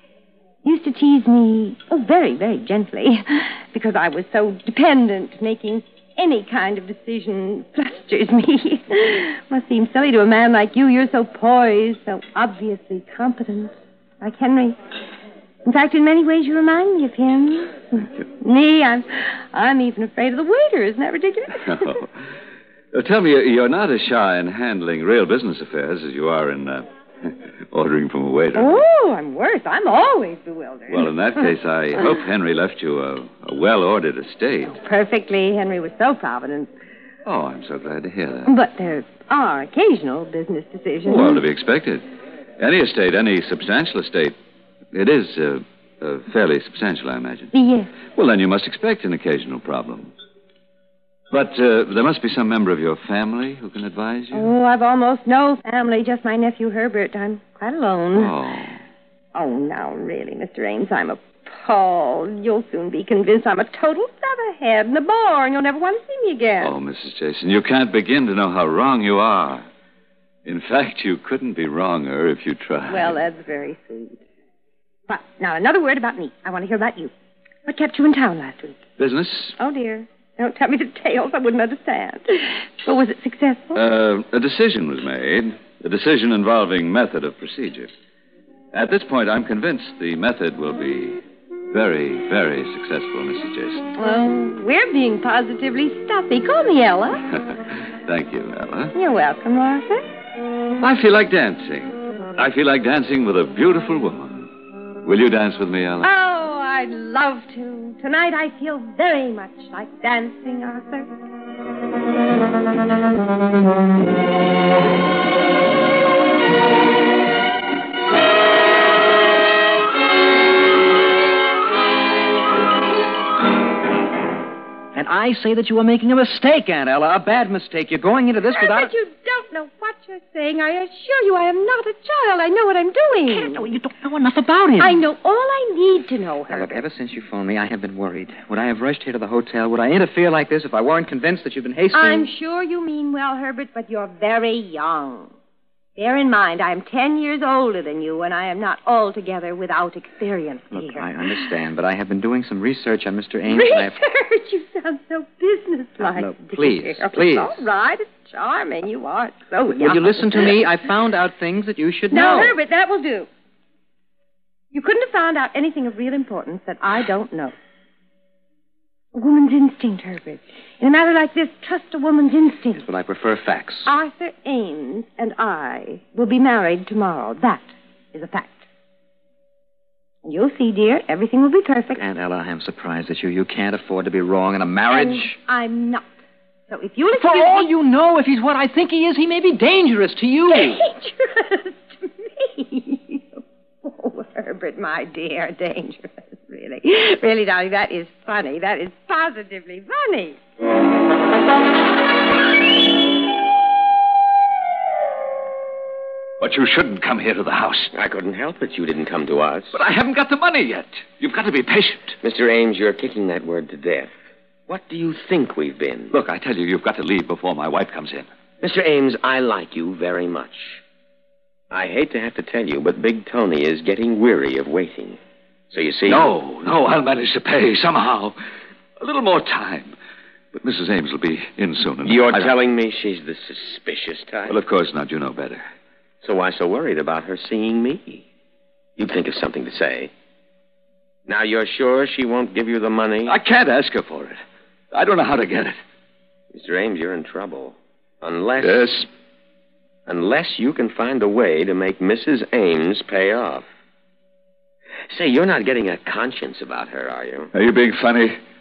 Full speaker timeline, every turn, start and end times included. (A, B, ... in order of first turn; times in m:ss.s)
0:00.6-0:14.8 A
0:15.6-0:21.9 A
0:21.7-0:22.1 B
0:22.9-0:28.8 B
0:28.6-0:31.1 A
0:30.9-0:34.7 B
0:34.6-0:36.7 A
0:37.2-0:38.5 B
0:38.5-0:41.4 A
0:41.0-0:42.1 B
0:42.6-0:44.4 B
0:44.9-0:47.5 B
0:47.5-0:47.9 A
0:48.2-0:50.1 B
0:51.3-0:54.5 B
0:54.3-0:58.3 A
0:58.1-0:58.8 B
0:59.3-1:06.7 A
1:06.6-1:09.6 B
1:10.4-1:13.2 B
1:12.9-1:14.2 A
1:15.1-1:17.1 A
1:17.7-1:18.8 A
1:19.0-1:19.6 B
1:19.6-1:23.8 A
1:23.8-1:27.9 B
1:28.7-1:31.2 B
1:31.7-1:33.9 B
1:34.0-1:37.3 A
1:38.0-1:38.9 B
1:38.9-1:40.0 A
1:40.8-1:44.5 B
1:45.0-1:46.1 B
1:46.0-1:51.1 A
2:05.0-2:08.9 C
2:08.5-2:13.7 A
2:13.6-2:15.0 C
2:14.8-2:16.8 A
2:16.5-2:22.2 C
2:21.9-2:25.3 A
2:26.0-2:31.6 A
2:30.7-2:34.0 C
2:33.5-2:40.6 A
2:36.0-2:37.6 C
2:39.8-2:42.6 C
2:42.1-2:43.3 A
2:44.7-2:47.5 A
2:49.1-2:52.8 A
2:52.8-2:53.9 C
2:53.9-2:58.6 A
3:00.2-3:02.0 A
3:02.0-3:05.4 C
3:04.9-3:06.1 A
3:06.7-3:07.7 A
3:07.2-3:10.8 C
3:10.5-3:20.4 A
3:26.4-3:27.9 B
3:27.9-3:29.8 D
3:29.7-3:32.2 B
3:32.2-3:34.1 D
3:34.7-3:36.2 D
3:36.1-3:38.3 B
3:38.6-3:40.8 D
3:41.7-3:45.2 D
3:45.7-3:46.3 D
3:46.1-3:48.4 B
3:49.0-3:50.0 B
3:50.5-3:52.5 B
3:52.0-3:54.6 D
3:54.5-3:55.6 B
3:56.2-3:58.2 D
3:59.0-4:00.1 D
4:01.3-4:03.4 D
4:03.2-4:04.4 B
4:04.9-4:05.8 B
4:06.5-4:08.9 D
4:08.6-4:09.1 B
4:10.1-4:13.6 D
4:15.1-4:17.5 D
4:17.5-4:18.4 B